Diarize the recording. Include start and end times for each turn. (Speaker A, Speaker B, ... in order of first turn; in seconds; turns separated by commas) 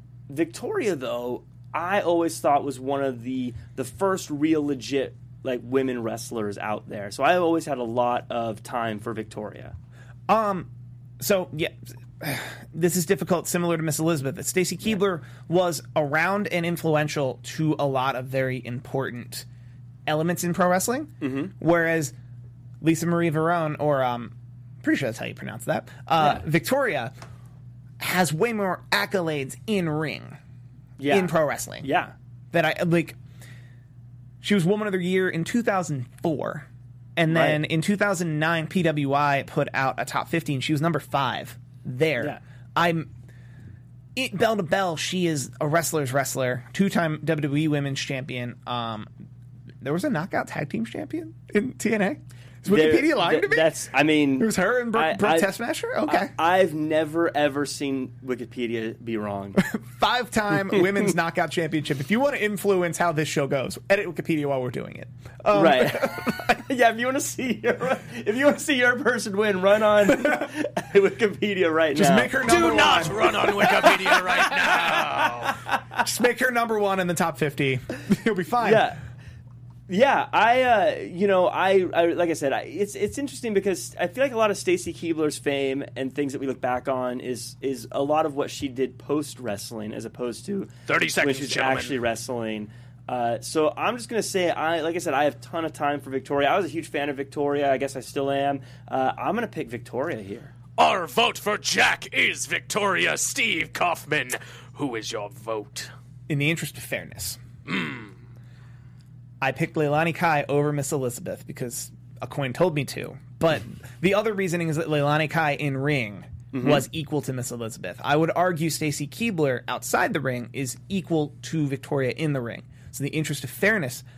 Speaker A: 0.3-9.8, Speaker B: 10.3-19.5, Speaker B: 20.1-22.1, Speaker A: 21.2-21.5, Speaker B: 22.8-27.1, Speaker B: 28.0-30.4, Speaker A: 31.0-32.1, Speaker B: 31.1-31.9, Speaker B: 32.5-33.2, Speaker B: 34.4-43.1, Speaker A: 37.3-37.6, Speaker B: 44.2-49.1, Speaker B: 49.8-53.7, Speaker A: 52.7-55.5, Speaker B: 54.4-56.3, Speaker A: 56.1-59.6, Speaker B: 59.6-66.6, Speaker A: 65.5-72.4, Speaker B: 70.1-70.5, Speaker B: 71.9-74.9, Speaker C: 72.4-75.6, Speaker A: 73.6-76.0, Speaker B: 76.0-78.9, Speaker A: 78.6-79.0, Speaker A: 79.9-100.5, Speaker C: 90.9-92.0, Speaker C: 100.8-105.9, Speaker B: 106.3-107.4, Speaker C: 107.7-108.1, Speaker B: 109.4-124.0, Speaker A: 116.5-116.8